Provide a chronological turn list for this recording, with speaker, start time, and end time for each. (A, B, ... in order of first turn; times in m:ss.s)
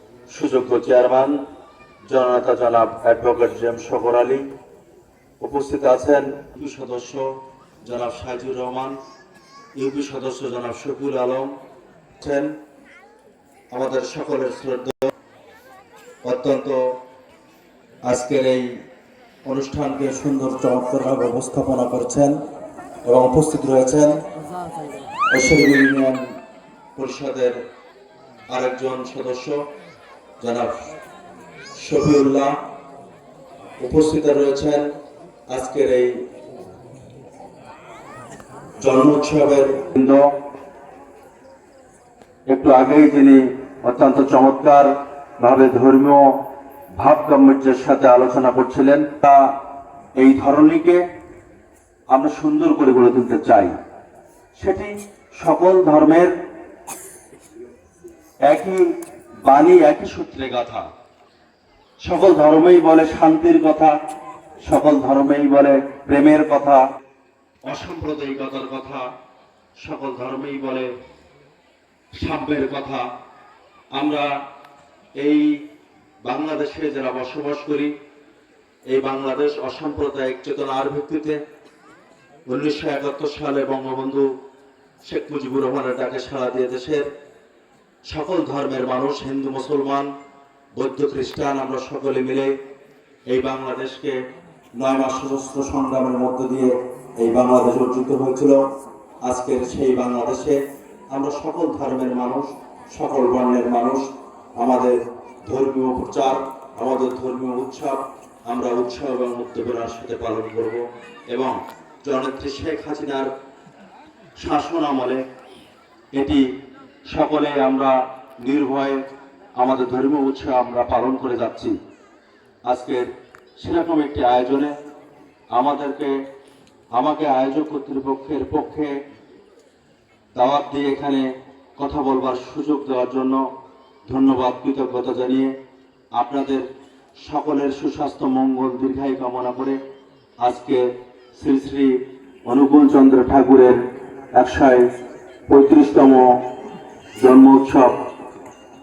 0:00.3-0:01.4 A
0:02.1-0:04.5 A
0:05.4-0:09.0 A
0:09.8-0:11.5 A
0:12.2-0:12.6 A
0:13.7-0:15.1 A
0:16.2-0:17.0 A
0:18.0-0:18.8 A
0:19.4-0:22.4 A
0:23.0-0:24.2 A
0:25.3-0:26.4 A
0:27.0-0:27.6 A
0:28.5-0:29.6 A
0:30.4-0:30.8 A
0:31.8-0:32.6 A
0:33.8-0:34.9 A
0:35.5-0:36.2 A
0:38.8-0:40.3 A
0:42.5-0:46.4 A
0:47.0-0:49.6 A
0:50.2-0:51.0 A
0:52.1-0:53.8 A
0:54.6-0:56.3 A
0:58.4-0:58.9 A
0:59.4-1:00.9 A
1:02.0-1:04.0 A
1:04.6-1:06.8 A
1:07.6-1:09.1 A
1:09.8-1:10.9 A
1:12.1-1:13.1 A
1:13.9-1:14.4 A
1:15.2-1:15.6 A
1:16.2-1:17.9 A
1:18.9-1:21.4 A
1:22.5-1:24.3 A
1:25.0-1:27.1 A
1:28.0-1:30.1 A
1:30.7-1:32.5 A
1:33.3-1:34.2 A
1:34.8-1:38.6 A
1:39.2-1:44.1 A
1:44.6-1:53.3 A
1:54.4-1:55.2 A
1:56.1-1:56.5 A
1:57.1-1:59.0 A
1:59.6-2:01.7 A
2:02.6-2:04.7 A
2:05.5-2:06.1 A
2:06.9-2:09.0 A
2:10.3-2:13.4 A
2:14.0-2:15.5 A
2:16.1-2:16.7 A
2:17.2-2:19.8 A
2:20.4-2:20.8 A
2:21.4-2:24.9 A
2:25.5-2:26.3 A
2:27.2-2:28.0 A